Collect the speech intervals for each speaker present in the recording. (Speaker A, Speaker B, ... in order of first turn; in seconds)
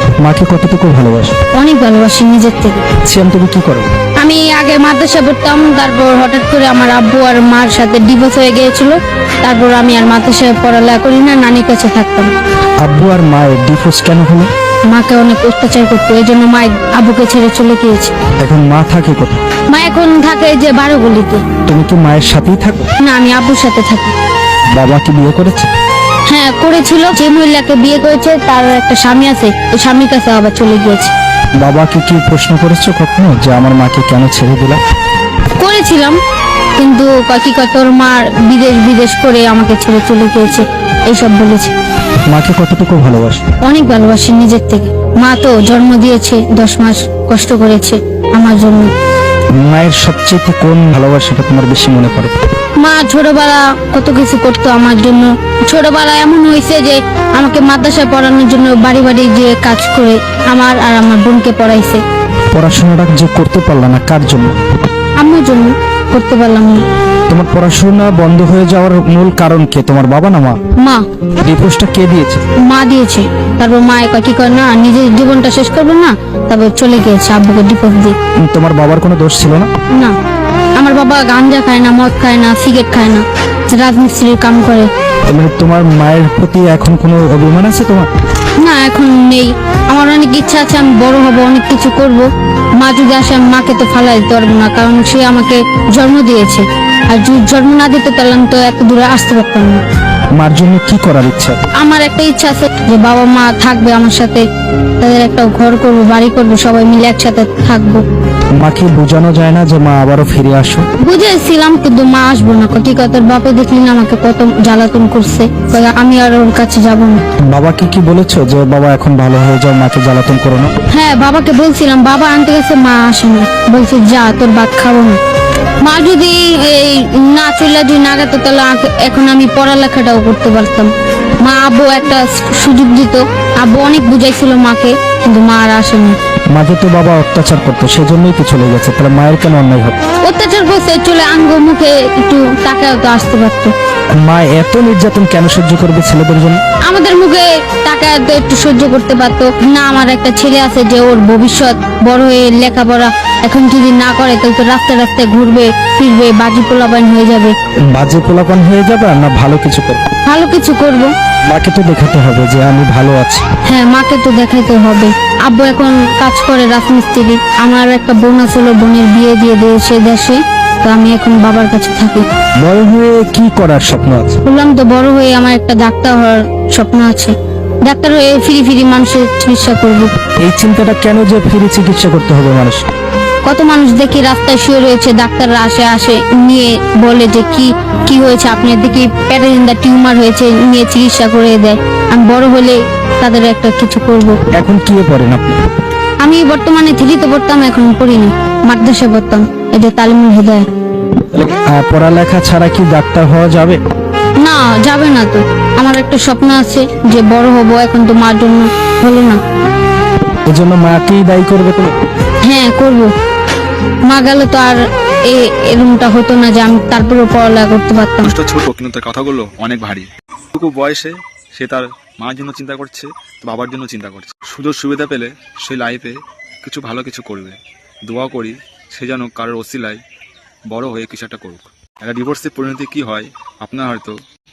Speaker A: 0.2-1.4, 3.0-3.9, 12.8-14.5, 18.4-19.4, 21.7-22.9, 24.7-25.7, 31.6-34.8, 42.3-43.4, 49.5-52.3, 62.5-64.6, 67.3-70.6, 71.4-72.4, 78.4-79.7, 85.3-88.1, 100.4-101.6, 108.6-110.8, 117.5-120.7, 136.5-140.0, 144.2-146.6, 157.8-160.0, 161.5-163.5, 172.6-174.4, 180.4-182.9, 194.5-195.6, 201.3-203.8, 210.5-211.9
Speaker B: 1.5-2.8, 4.2-12.3, 14.9-18.1, 19.7-21.4, 23.0-24.1, 26.3-31.1, 35.6-36.2, 36.8-41.7, 43.6-48.9, 52.8-62.0, 65.2-66.8, 70.8-71.1, 72.6-78.2, 80.8-84.9, 88.6-92.3, 92.8-99.8, 101.8-104.5, 105.0-108.0, 111.0-117.2, 120.9-125.2, 125.8-136.2, 140.2-143.7, 146.8-157.6, 160.3-161.1, 163.7-172.3, 174.4-177.3, 177.8-180.1, 183.5-194.4, 196.2-200.7, 204.4-209.4, 212.4-213.1, 214.1-218.3
Speaker C: 218.2-230.0, 230.7-234.2